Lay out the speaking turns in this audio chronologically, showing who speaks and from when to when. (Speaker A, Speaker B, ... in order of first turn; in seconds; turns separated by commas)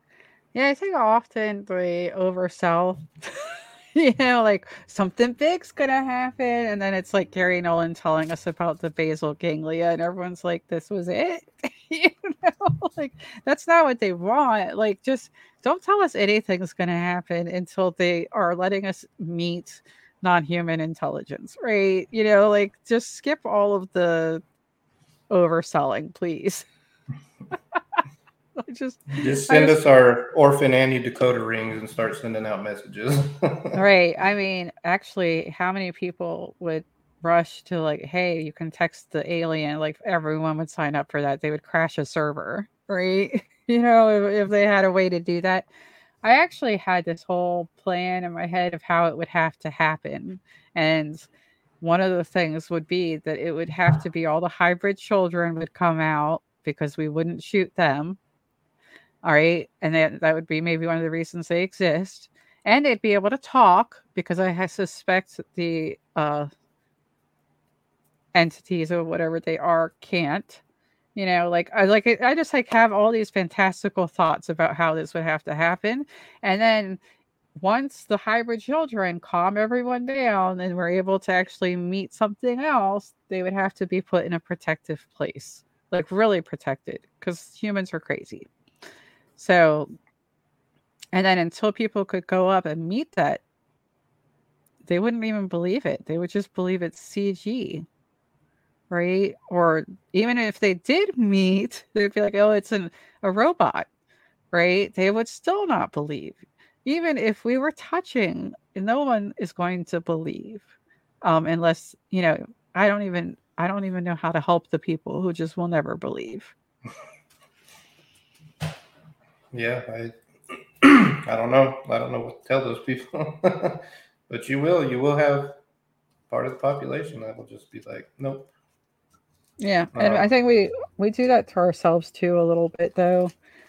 Speaker A: 0.5-24.4, Speaker A: 25.3-26.6, Speaker A: 28.6-29.8, Speaker B: 29.2-33.8, Speaker A: 33.7-45.6, Speaker A: 46.2-51.3, Speaker A: 51.8-58.2, Speaker A: 59.2-66.5, Speaker A: 68.3-70.6, Speaker A: 71.1-77.0, Speaker A: 77.5-88.5, Speaker A: 89.4-89.9, Speaker A: 91.1-93.4, Speaker A: 94.8-97.8, Speaker A: 98.9-103.9, Speaker A: 104.5-110.7, Speaker A: 111.2-116.5, Speaker B: 119.5-125.6, Speaker B: 126.3-128.5, Speaker A: 129.6-133.3, Speaker B: 129.9-130.3